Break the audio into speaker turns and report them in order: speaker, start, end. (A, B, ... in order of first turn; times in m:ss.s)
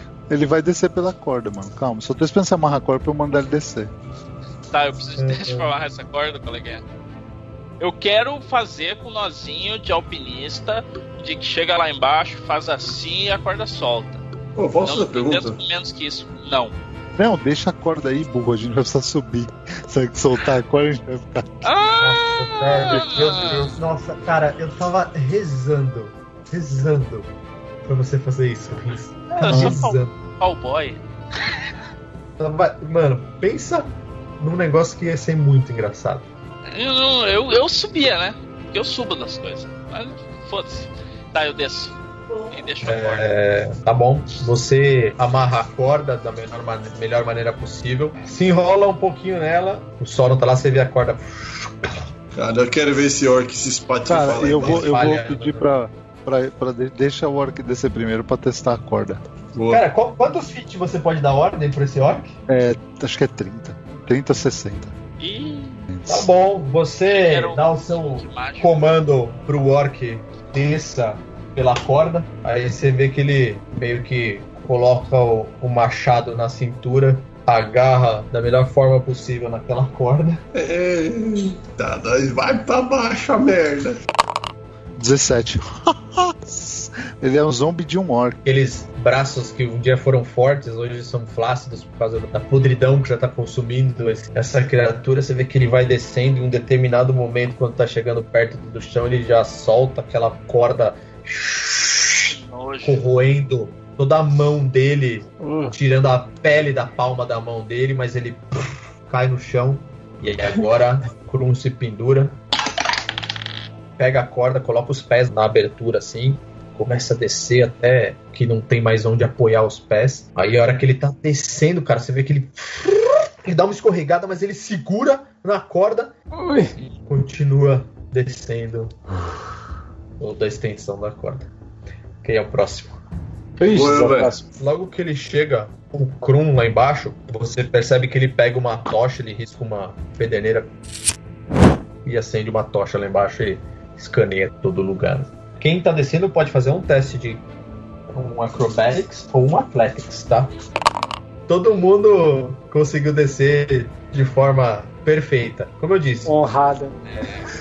0:00.3-0:03.9 A
0:04.7-0:06.8 B
0:05.2-0:05.7 C
0:07.8-0:14.2 B
0:14.6-0:15.6 D
0:14.8-0:16.8 B
0:17.2-0:21.7 A
0:21.6-0:23.8 B
0:22.0-0:27.3 C
0:27.8-0:30.1 C
0:29.4-0:31.0 B
0:29.4-0:29.8 A
0:32.4-0:36.3 C
0:36.7-0:42.0 B
0:42.5-0:43.3 B
0:42.8-0:52.0 C
0:52.3-0:55.0 D
0:54.1-0:59.2 A
0:54.5-0:55.7 C
0:59.5-0:59.8 D
0:59.7-1:02.4 C
1:02.5-1:05.0 A
1:05.2-1:05.8 B
1:05.9-1:06.3 A
1:06.1-1:20.4 C
1:07.1-1:09.0 B
1:20.5-1:24.0 D
1:25.0-1:28.4 A
1:28.4-1:52.4 C
1:42.3-1:43.0 B
1:45.4-1:45.7 E
1:54.0-2:06.2 C
2:06.3-2:06.8 E
2:06.8-2:09.0 C
2:10.2-2:11.5 C
2:12.2-2:13.0 C
2:13.6-2:14.5 E
2:13.7-2:14.3 D
2:14.6-2:20.7 C
2:22.0-2:27.4 C
2:28.1-2:30.5 C
2:31.5-2:36.3 C
2:36.3-2:37.0 E
2:37.1-2:37.4 B